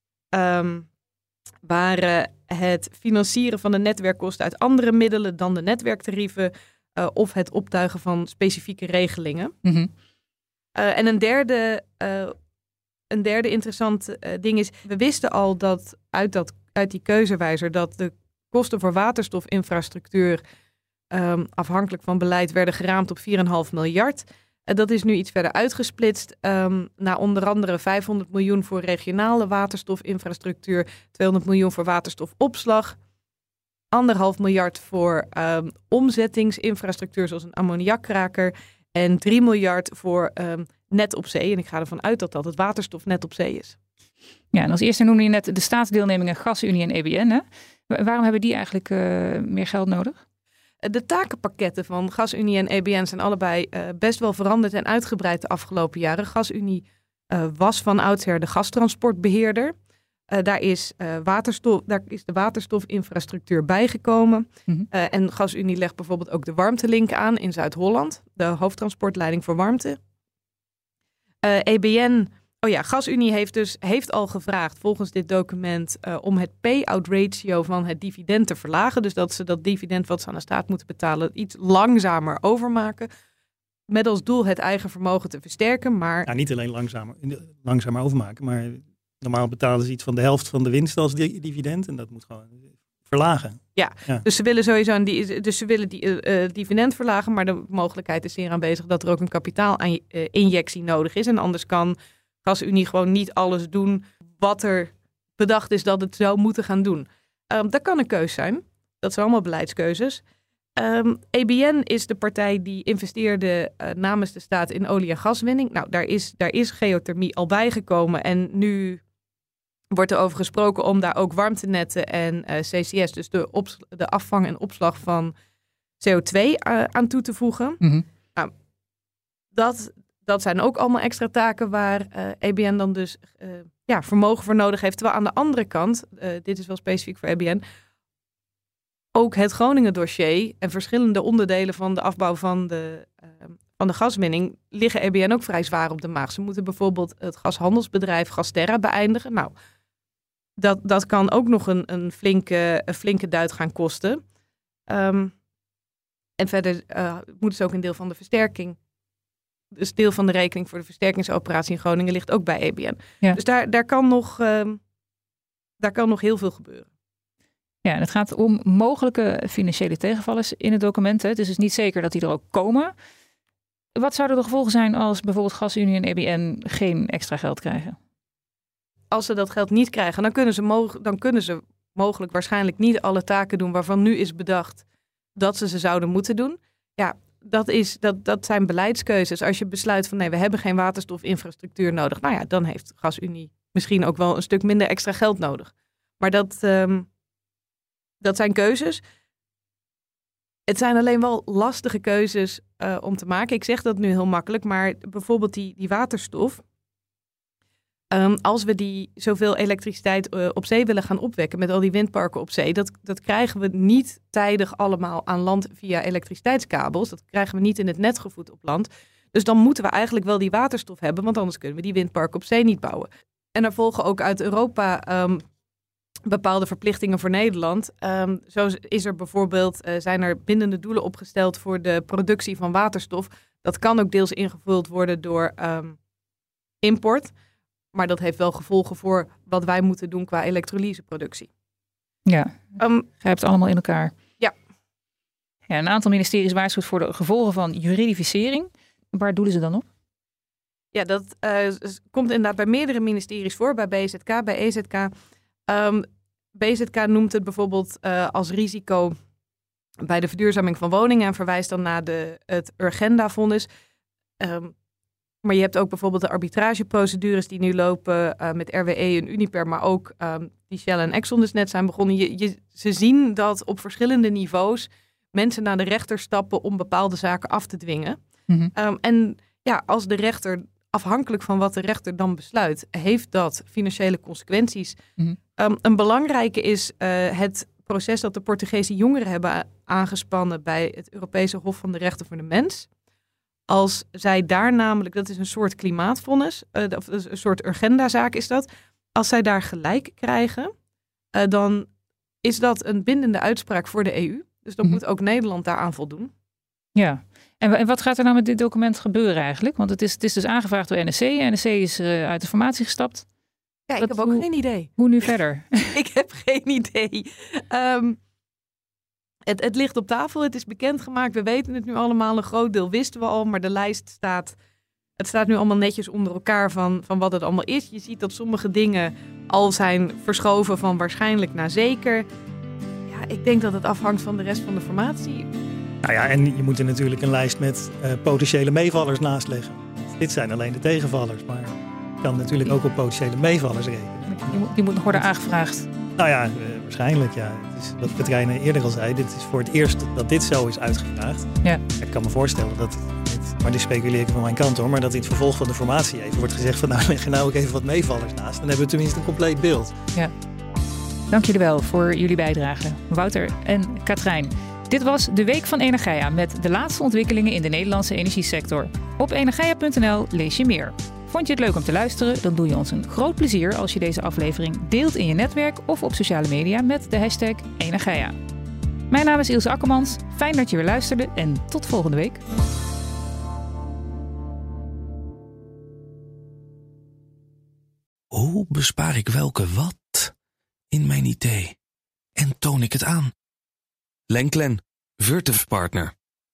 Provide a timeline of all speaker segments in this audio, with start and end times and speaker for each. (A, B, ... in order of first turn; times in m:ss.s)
0:00.3-0:00.9 A
0:01.6-0:09.6 A
0:09.6-0:09.9 B
0:10.8-0:12.4 A
0:13.1-0:20.4 A
0:21.1-0:33.0 A
0:33.9-0:43.8 A
0:44.5-0:50.2 B
0:50.8-0:59.8 A
1:00.3-1:10.0 A
1:11.4-1:23.1 A
1:23.9-1:26.3 A
1:26.3-1:34.2 C
1:33.8-1:50.2 A
1:50.8-1:59.0 A
1:59.9-2:05.3 A
2:06.0-2:07.8 A
2:09.5-2:17.6 A
2:19.2-2:29.5 A
2:30.6-2:34.2 A
2:34.9-2:35.3 A
2:36.4-2:38.8 A
2:39.8-2:44.8 A
2:45.8-2:46.9 A
2:47.8-2:52.9 B
2:54.0-2:58.0 B
2:59.1-3:04.8 A
3:05.4-3:17.1 A
3:18.2-3:19.0 A
3:20.7-3:26.6 A
3:28.1-3:45.4 A
3:46.3-3:56.0 A
3:56.8-3:57.3 A
3:57.9-4:01.5 A
4:02.3-4:04.2 B
4:02.8-4:03.1 A
4:05.7-4:09.9 B
4:10.9-4:15.1 A
4:15.7-4:19.2 A
4:20.0-4:23.7 A
4:24.4-4:24.7 A
4:25.4-4:38.2 A
4:38.8-4:45.0 A
4:45.6-4:52.9 A
4:53.7-5:00.7 A
5:01.3-5:01.9 A
5:02.4-5:06.3 A
5:07.0-5:13.3 B
5:13.9-5:15.0 A
5:14.0-5:14.5 B
5:15.0-5:15.9 B
5:15.9-5:18.2 A
5:19.5-5:24.6 A
5:25.2-5:32.3 A
5:33.1-5:35.5 A
5:36.0-5:44.5 C
5:44.4-5:45.9 B
5:46.2-6:00.0 C
6:01.3-6:18.4 B
6:19.1-6:22.4 B
6:28.3-6:30.3 D
6:30.9-6:31.8 D
6:32.4-6:33.3 D
6:34.3-6:36.1 D